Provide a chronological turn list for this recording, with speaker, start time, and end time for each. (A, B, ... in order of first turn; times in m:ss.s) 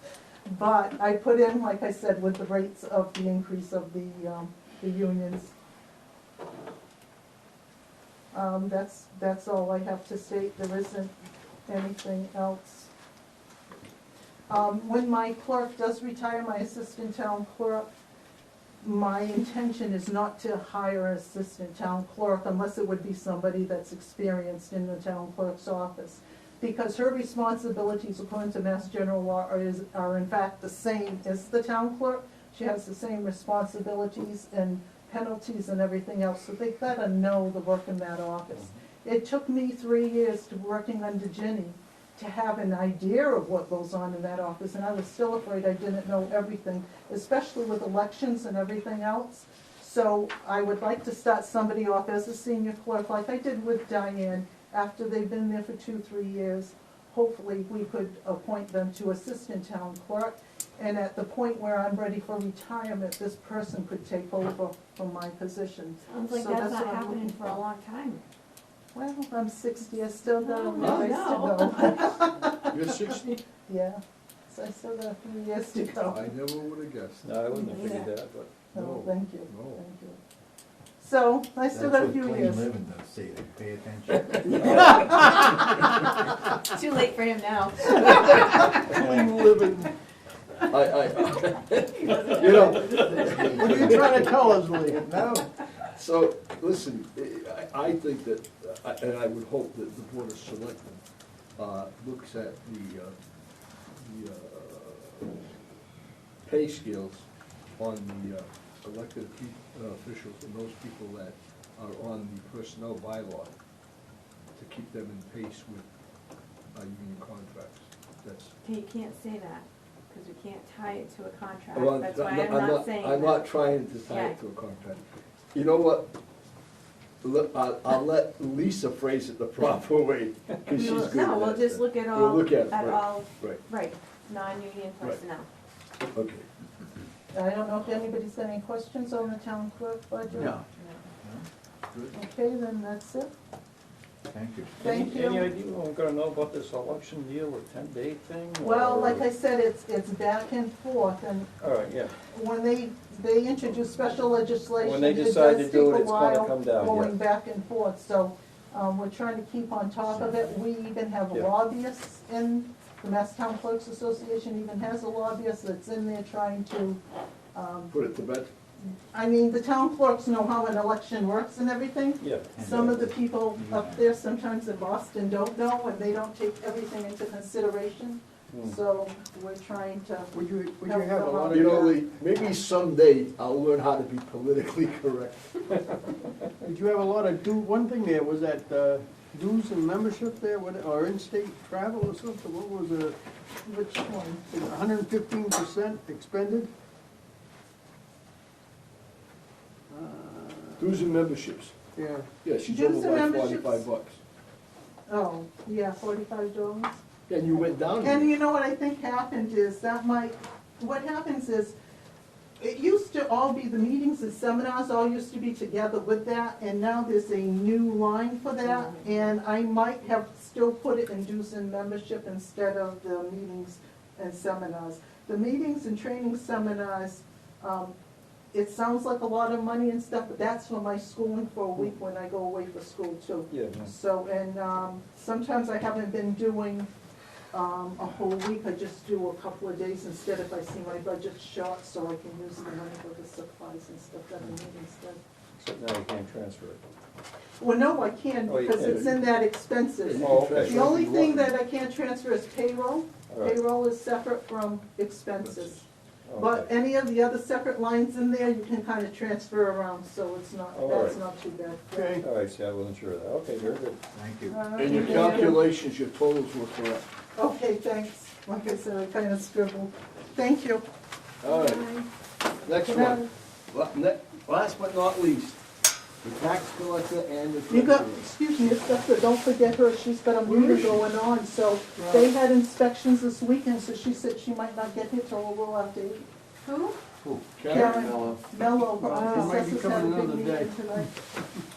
0:00.4-0:05.5 A
0:08.3-0:11.1 A
0:11.7-0:12.9 A
0:14.5-0:17.9 A
0:18.8-1:07.6 A
1:06.1-1:08.2 B
1:08.9-1:12.7 A
1:10.4-1:12.3 B
1:10.8-1:11.2 C
1:12.7-1:13.4 C
1:13.7-1:16.3 A
1:16.0-1:17.4 C
1:17.2-1:18.5 D
1:17.5-1:18.1 B
1:18.7-1:19.8 C
1:18.7-1:20.2 A
1:21.0-1:22.7 A
1:21.7-1:24.8 E
1:24.5-1:25.7 B
1:26.7-1:29.0 B
1:28.8-1:29.9 F
1:30.7-1:34.4 C
1:32.0-1:33.4 B
1:33.0-1:34.3 E
1:33.4-1:35.0 F
1:35.0-1:35.5 E
1:35.9-1:41.0 C
1:41.6-1:43.1 C
1:44.0-1:45.3 C
1:46.4-1:47.2 C
1:47.8-1:53.5 C
1:54.6-1:55.8 C
1:56.7-1:58.5 C
1:58.6-2:04.4 B
2:01.7-2:05.0 C
2:05.5-2:06.1 C
2:07.2-2:13.6 C
2:10.6-2:15.5 B
2:16.1-2:16.4 C
2:17.3-2:20.6 A
2:20.4-2:20.6 F
2:21.2-2:21.5 E
2:21.9-2:22.2 C
2:22.1-2:23.3 A
2:24.3-2:24.7 E
2:24.8-2:25.5 A
2:24.8-2:29.2 D
2:28.6-2:31.5 A
2:31.6-2:32.1 D
2:32.3-2:47.0 A
2:34.8-2:37.1 D
2:47.5-2:47.9 A
2:47.9-2:48.5 C
2:49.1-3:00.3 A
2:52.2-2:52.5 D
2:52.5-2:54.0 E
2:58.5-2:58.8 D
3:00.3-3:01.8 F
3:00.8-3:02.0 A
3:01.5-3:06.0 C
3:06.6-3:13.2 F
3:13.6-3:14.5 A
3:14.5-3:16.7 F
3:19.9-3:21.1 F
3:20.8-3:21.8 C
3:21.9-3:22.3 F
3:22.4-3:24.2 C
3:22.6-3:23.9 A
3:25.1-3:27.0 A
3:27.3-3:28.3 C
3:28.0-3:31.8 A
3:32.6-3:47.9 A
3:38.6-3:39.0 B
3:48.5-3:56.9 A
3:53.5-3:53.9 D
3:57.5-4:05.2 A
4:05.6-4:06.8 D
4:07.6-4:15.8 A
4:08.5-4:09.0 D
4:10.0-4:11.5 C
4:10.2-4:10.8 D
4:13.3-4:13.6 D
4:15.4-4:15.8 C
4:16.3-4:16.7 D
4:16.4-4:22.2 A
4:20.7-4:21.2 D
4:21.9-4:22.3 F
4:22.2-4:24.0 D
4:24.1-4:24.6 E
4:24.5-4:25.6 A
4:24.8-4:27.1 C
4:24.8-4:25.5 B
4:27.4-4:30.8 A
4:31.4-4:31.9 C
4:31.4-4:32.0 B
4:32.6-4:35.6 C
4:32.8-4:33.3 A
4:36.2-4:38.2 C
4:37.7-4:46.2 A
4:40.5-4:41.0 F
4:42.0-4:42.3 F
4:46.6-4:47.0 B
4:47.5-4:48.3 C
4:47.7-4:51.2 A
4:48.9-4:51.0 F